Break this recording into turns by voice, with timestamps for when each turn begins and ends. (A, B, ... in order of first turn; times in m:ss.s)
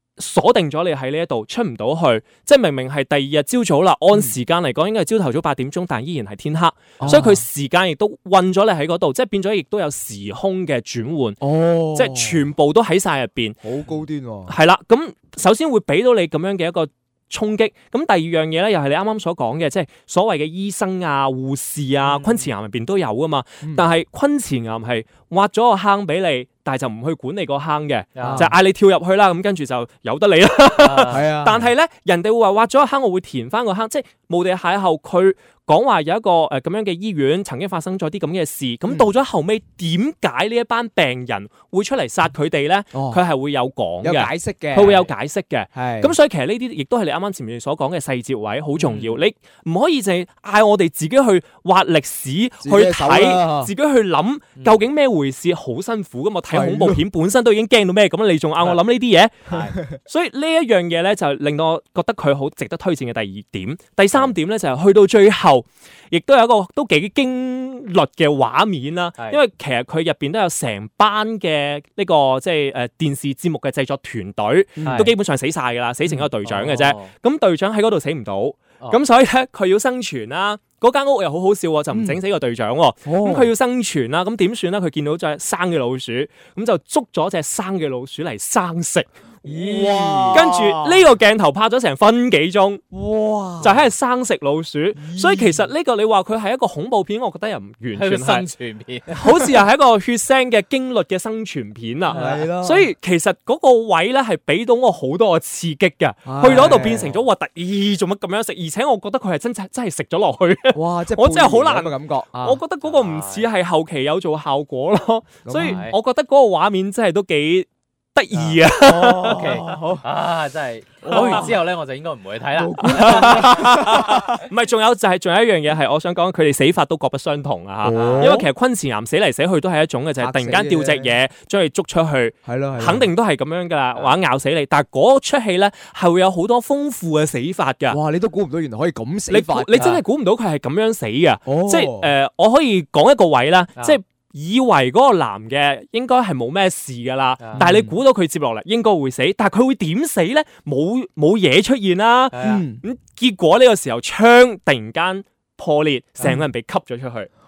0:00.2-0:13.6 A
0:07.0-0:07.4 B
0:11.4-0:12.4 B
0:13.6-0:14.6 B
0:14.5-1:32.8 A
0:22.0-0:22.5 C
0:28.2-0:28.5 C
0:28.2-0:28.6 B
0:30.8-0:31.3 C
0:31.1-0:31.7 B
0:42.9-0:43.2 B
0:44.0-0:45.0 B
0:44.8-0:45.1 C
0:45.7-0:46.2 B
0:48.8-0:49.2 C
0:52.6-0:53.7 B
0:54.6-0:54.8 C
0:56.5-0:57.0 B
0:59.5-0:59.8 C
1:14.8-1:15.1 B
1:14.8-1:15.1 C
1:16.1-1:17.1 C
1:21.9-1:22.2 B
1:23.0-1:23.5 B
1:29.4-1:31.0 B
1:29.7-1:30.4 C
1:32.9-1:33.9 B
1:33.6-1:38.5 A
1:35.0-1:35.7 B
1:37.9-1:39.2 C
1:39.1-1:59.5 A
1:42.1-1:42.9 B
1:42.1-1:42.5 C
1:46.2-1:47.1 B
1:50.7-1:52.6 B
1:52.8-1:53.5 C
1:55.4-1:55.8 B
1:55.6-1:56.0 C
1:58.3-1:58.6 C
1:58.8-2:00.0 B
1:59.2-2:03.6 C
2:01.0-2:01.6 B
2:01.1-2:01.5 A
2:02.5-2:04.3 B
2:02.9-2:18.0 A
2:07.8-2:08.5 B
2:08.0-2:08.3 C
2:10.2-2:11.2 B
2:12.4-2:13.1 B
2:17.9-2:20.0 B
2:19.3-2:37.3 A
2:19.8-2:20.0 C
2:21.5-2:22.1 B
2:27.4-2:27.7 C
2:27.6-2:28.0 B
2:32.3-2:32.6 C
2:32.4-2:32.8 B